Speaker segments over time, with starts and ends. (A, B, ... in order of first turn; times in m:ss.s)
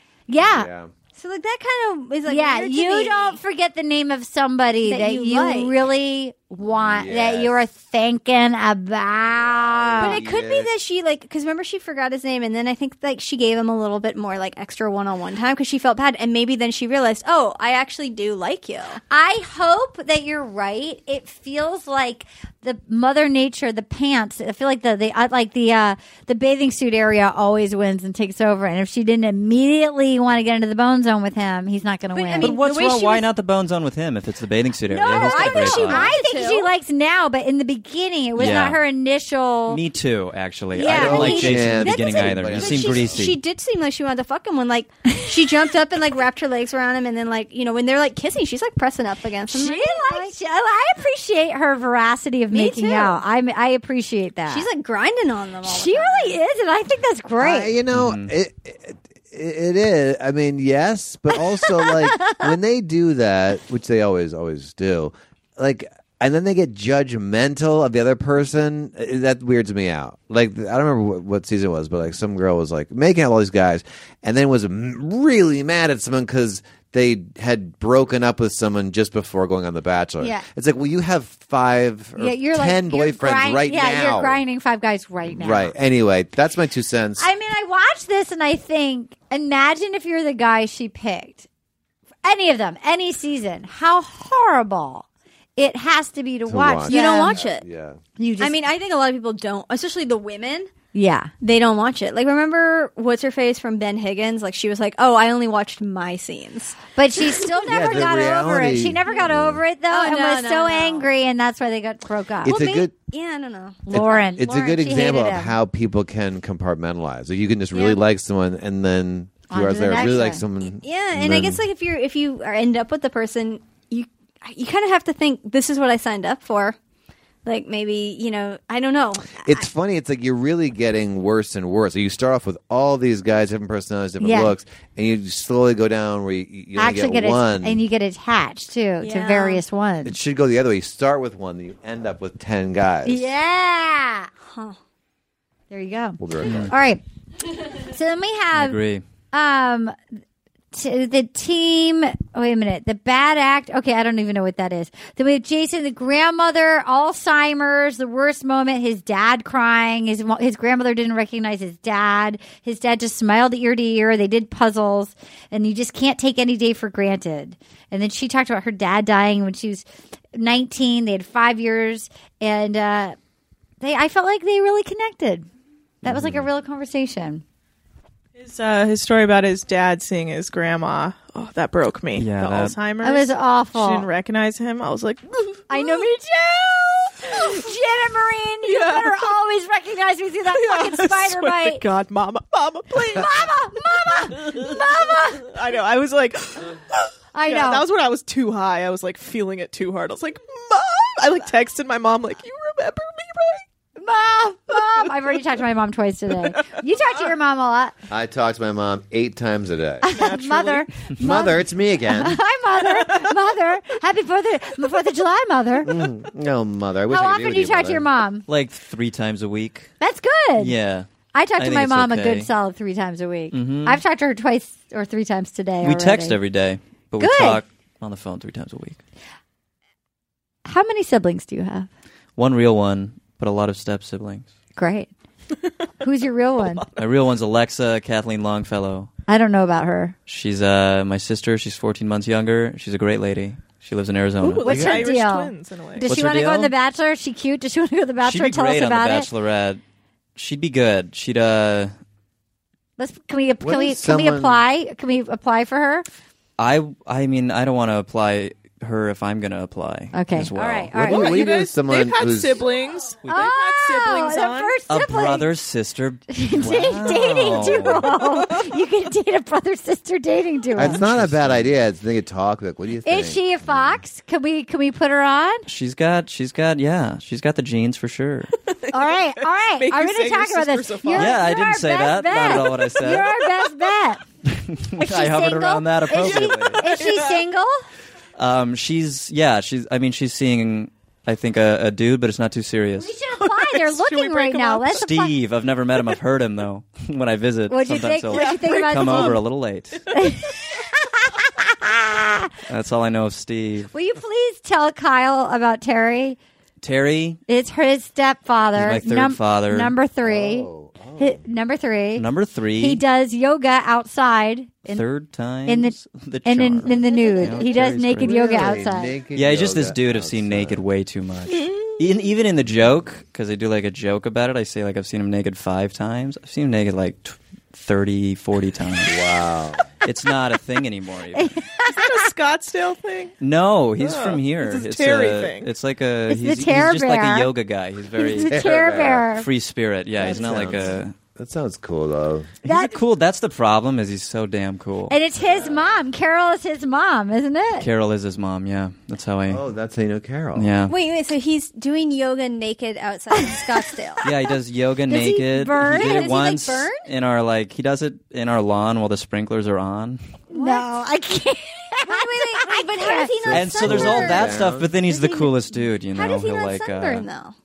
0:00.3-0:00.7 A
0:00.4-0:00.9 B
0:01.1-0:03.4 C
0:02.3-0:10.2 A
0:04.8-0:05.8 C
0:06.8-0:07.6 B
0:09.2-0:10.7 B
0:10.0-0:19.0 C
0:19.1-0:32.6 A
0:32.1-0:33.2 C
0:32.4-0:36.1 D
0:34.9-0:39.8 A
0:35.0-0:36.7 C
0:38.4-0:38.8 D
0:39.7-0:43.4 D
0:40.8-0:41.8 A
0:40.8-0:43.3 B
0:41.2-0:50.3 C
0:49.5-0:54.7 A
0:52.5-0:53.2 C
0:54.5-0:56.4 C
0:55.6-0:57.7 A
0:57.4-1:24.4 B
0:57.9-0:58.3 D
1:22.2-1:25.7 A
1:25.3-1:27.3 B
1:27.2-1:31.5 A
1:32.2-1:37.4 A
1:36.5-1:38.0 B
1:36.9-1:37.6 C
1:38.2-1:38.6 A
1:38.4-1:40.7 C
1:40.9-1:41.3 A
1:41.4-1:48.2 C
1:47.0-1:52.6 A
1:47.7-1:49.6 B
1:49.9-1:51.1 C
1:52.4-1:52.9 B
1:52.4-1:54.3 C
1:53.8-1:55.6 A
1:53.9-2:01.6 B
1:59.5-2:00.4 A
2:00.8-2:06.8 C
2:07.4-2:09.6 C
2:09.4-2:17.8 B
2:14.2-2:14.5 A
2:16.8-2:20.2 A
2:19.0-2:19.6 C
2:20.0-2:23.3 B
2:23.0-2:24.3 A
2:24.4-2:24.8 C
2:25.7-2:27.0 A
2:26.2-2:26.7 B
2:26.4-2:26.7 D
2:27.8-2:28.8 A
2:28.5-2:29.0 D
2:29.3-2:29.9 A
2:30.7-2:53.2 A
2:53.8-2:55.4 A
2:56.0-2:56.4 B
2:56.0-2:57.4 A
2:58.4-3:05.8 E
3:02.1-3:02.8 D
3:03.0-3:04.1 A
3:05.7-3:11.8 A
3:08.6-3:09.3 E
3:10.5-3:23.6 E
3:13.0-3:15.5 A
3:17.3-3:17.8 A
3:24.0-3:27.9 A
3:24.7-3:25.1 E
3:26.5-3:27.3 E
3:28.1-3:30.1 B
3:30.0-3:36.0 A
3:30.0-3:31.1 E
3:31.2-3:32.4 B
3:32.8-3:33.3 E
3:35.8-3:38.0 B
3:37.1-3:38.4 A
3:38.5-3:39.9 D
3:40.0-3:40.7 A
3:40.6-3:42.5 D
3:41.3-3:46.4 A
3:43.5-3:44.0 D
3:45.8-3:49.0 D
3:47.2-3:47.6 A
3:50.6-3:51.9 A
3:52.4-3:54.5 D
3:54.8-3:55.1 A
3:56.0-3:56.8 A
3:57.0-3:59.1 D
3:59.3-4:00.1 A
4:00.3-4:04.8 D
4:04.4-4:06.1 E
4:04.5-4:09.3 A
4:04.7-4:05.1 B
4:06.0-4:06.7 D
4:08.2-4:09.8 D
4:10.4-4:11.9 D
4:13.0-4:16.0 A
4:13.6-4:14.6 B
4:16.6-4:21.2 D
4:20.1-4:21.5 A
4:21.0-4:22.7 B
4:21.1-4:24.8 E
4:23.2-4:23.5 D
4:23.3-4:25.5 A
4:24.9-4:28.1 D
4:26.3-4:31.0 A
4:30.8-4:34.0 B
4:30.8-4:31.7 D
4:33.0-4:35.6 A
4:35.7-4:38.5 D
4:38.7-4:41.4 E
4:38.9-4:44.2 A
4:41.1-4:43.3 D
4:44.4-4:46.9 D
4:45.0-4:47.8 A
4:46.1-4:47.4 E
4:48.4-4:53.1 D
4:53.0-4:55.3 A
4:53.4-4:55.1 E
4:54.9-5:00.0 D
4:57.7-4:59.4 A
4:58.3-4:59.4 E
5:00.0-5:00.3 E
5:00.1-5:00.8 A
5:01.6-5:02.5 A
5:02.7-5:03.9 D
5:03.9-5:06.4 A
5:06.8-5:07.4 D
5:07.5-5:12.2 A
5:08.7-5:09.9 D
5:10.2-5:11.4 B
5:12.2-5:13.0 D
5:12.8-5:15.0 A
5:14.9-5:18.7 D
5:15.7-5:19.1 A
5:17.2-5:17.5 C
5:18.2-5:20.8 B
5:19.3-5:29.1 D
5:21.5-5:22.3 E
5:29.0-5:29.8 B
5:30.0-5:31.6 D
5:31.4-5:32.0 A
5:31.8-5:33.3 E
5:33.4-5:41.1 D
5:34.0-5:35.7 E
5:36.3-5:37.5 A
5:38.2-5:39.5 A
5:38.5-5:39.3 B
5:40.2-5:42.5 B
5:42.6-5:43.0 A
5:42.6-5:45.1 D
5:45.1-5:47.9 A
5:45.5-5:45.8 B
5:47.8-5:49.6 D
5:49.5-5:50.7 B
5:50.6-5:50.9 D
5:50.9-5:54.2 C
5:54.2-6:00.2 D
5:55.1-5:56.3 A
5:55.8-5:57.1 C
6:00.5-6:03.3 A
6:00.5-6:00.8 C
6:02.0-6:04.5 C
6:03.4-6:04.9 B
6:03.5-6:07.2 D
6:05.1-6:05.5 C
6:06.1-6:07.5 C